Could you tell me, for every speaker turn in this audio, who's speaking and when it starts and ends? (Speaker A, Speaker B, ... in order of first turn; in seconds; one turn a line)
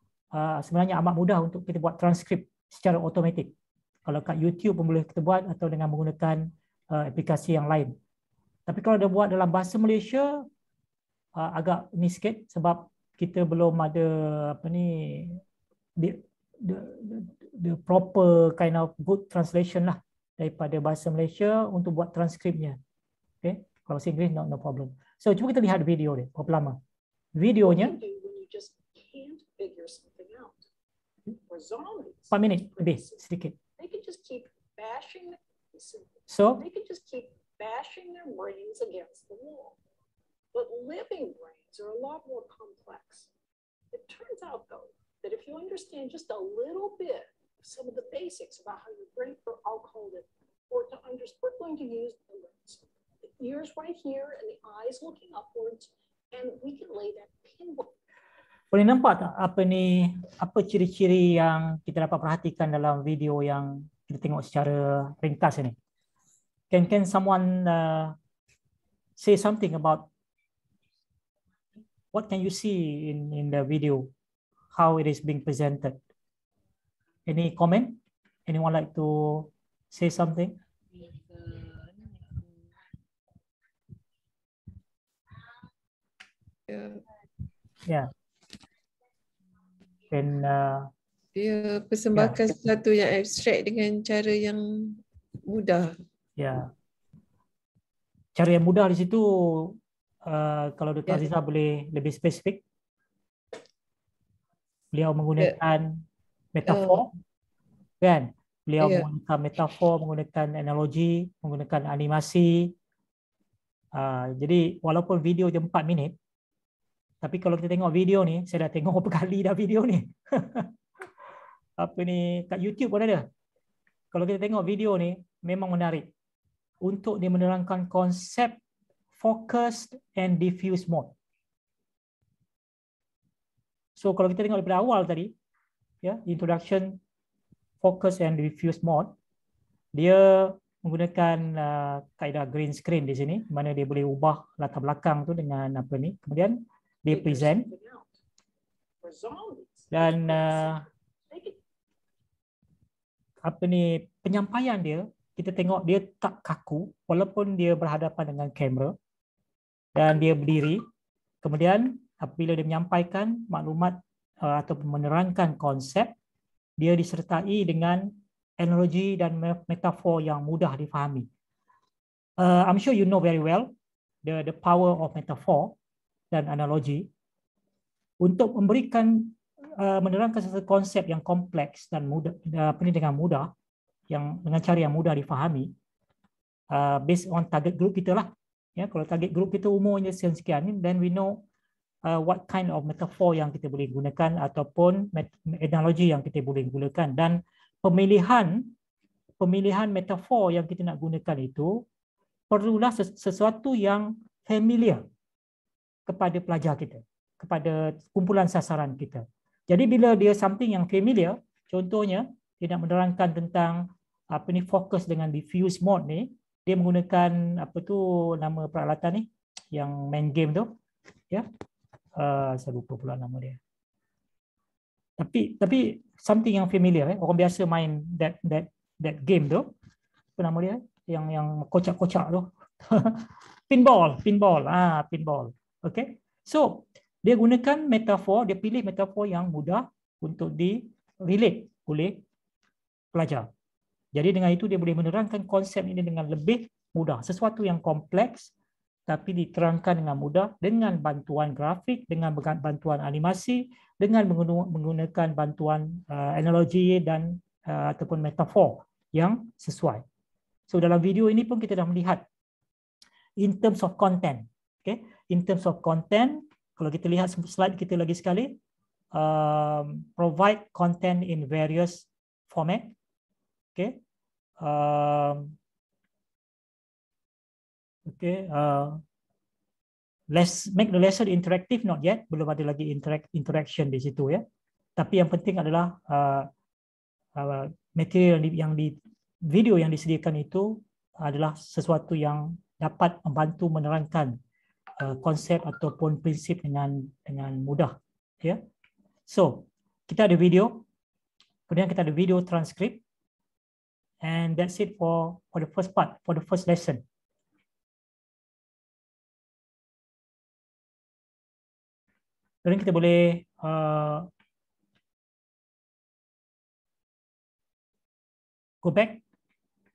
Speaker A: 0.3-3.5
Speaker A: 4.0-7.9
Speaker A: 8.7-10.4
Speaker A: 11.3-15.4
Speaker A: 16.0-22.8
Speaker A: 23.4-26.8
Speaker A: 27.3-28.0
Speaker B: 27.6-30.6
Speaker B: 31.5-33.2
Speaker A: 32.3-33.5
Speaker B: 33.8-39.8
Speaker A: 36.3-36.6
Speaker B: 40.5-43.3
Speaker B: 43.9-57.9
Speaker A: 58.7-65.7
Speaker A: 66.7-68.1
Speaker A: 69.2-70.1
Speaker A: 72.1-74.1
Speaker A: 74.7-76.0
Speaker A: 77.3-80.5
Speaker C: 86.7-87.0
Speaker A: 90.1-90.9
Speaker C: 91.3-95.9
Speaker A: 92.1-92.4
Speaker A: 96.4-96.7
Speaker A: 98.3-102.6
Speaker A: 104.9-107.1
Speaker C: 106.7-107.0
Speaker A: 108.0-112.7
Speaker C: 108.8-109.1
Speaker A: 113.9-116.1
Speaker A: 117.2-120.7
Speaker A: 121.8-123.3
Speaker A: 124.1-126.1
Speaker A: 126.8-128.6
Speaker A: 129.2-131.1
Speaker A: 134.0-135.3
Speaker A: 136.0-137.0
Speaker A: 137.8-139.1
Speaker A: 139.9-147.7
Speaker B: 147.1-148.1
Speaker B: 149.0-151.6
Speaker A: 149.9-150.8
Speaker A: 153.4-158.9
Speaker A: 159.9-160.8
Speaker A: 161.4-166.1
Speaker A: 166.8-171.3
Speaker A: 172.4-173.7
Speaker A: 174.2-175.7
Speaker A: 176.3-177.1
Speaker A: 178.2-183.5
Speaker A: 184.1-185.7
Speaker A: 186.7-191.4
Speaker A: 192.0-198.7
Speaker A: 199.4-201.8
Speaker A: 202.5-205.0
Speaker A: 206.1-220.7
Speaker A: 222.1-223.6
Speaker A: 225.2-229.7
Speaker A: 230.4-242.2
Speaker A: 243.1-243.5
Speaker A: 244.1-248.5
Speaker A: 249.1-260.0
Speaker A: 260.7-262.2
Speaker A: 263.4-268.5
Speaker A: 269.1-272.9
Speaker A: 274.6-275.5
Speaker A: 278.1-279.0
Speaker A: 280.3-284.4
Speaker A: 284.9-286.5
Speaker A: 287.4-294.4
Speaker A: 295.0-298.6
Speaker A: 299.3-300.8
Speaker A: 301.7-303.0
Speaker A: 304.2-307.0
Speaker A: 312.6-314.3
Speaker A: 318.8-319.2